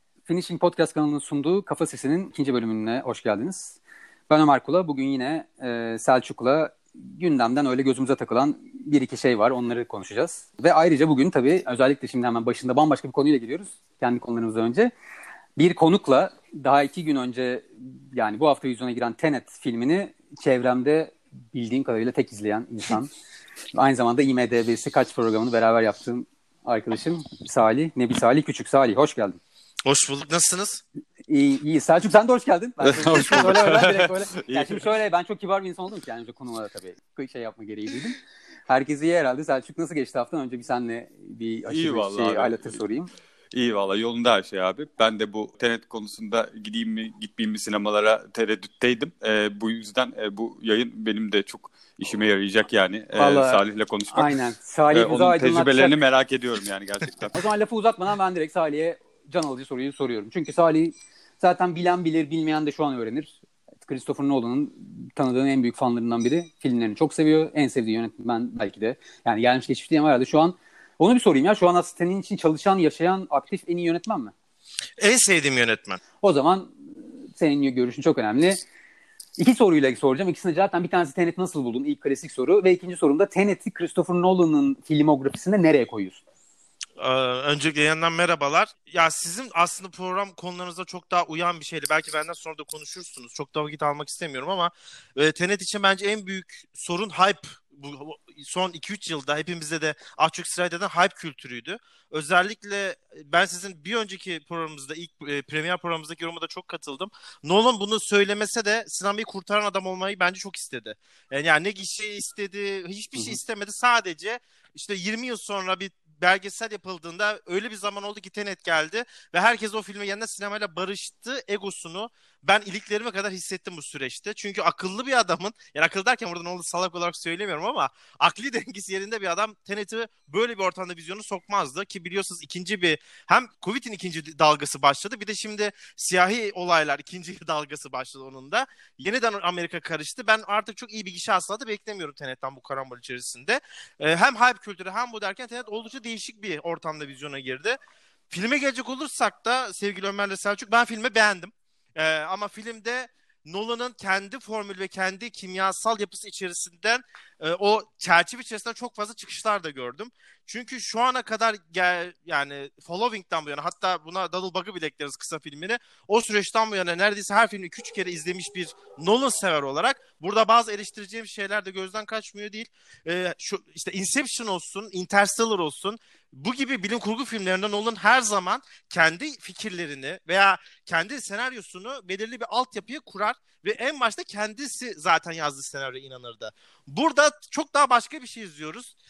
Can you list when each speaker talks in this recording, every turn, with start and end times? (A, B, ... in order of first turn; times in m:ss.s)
0:00.3-0:03.8 A
0:04.3-0:14.9 A
0:15.6-0:23.1 A
0:23.7-0:29.4 A
0:29.8-0:30.8 B
0:31.3-0:43.1 A
0:32.8-0:34.8 C
0:41.7-0:42.8 C
0:43.5-0:54.4 C
0:53.2-0:56.0 A
0:54.9-0:57.4 C
0:57.3-1:14.3 A
1:15.0-1:16.0 B
1:16.2-1:18.6 A
1:19.4-1:26.2 A
1:27.0-2:27.8 B
2:28.3-3:08.9 B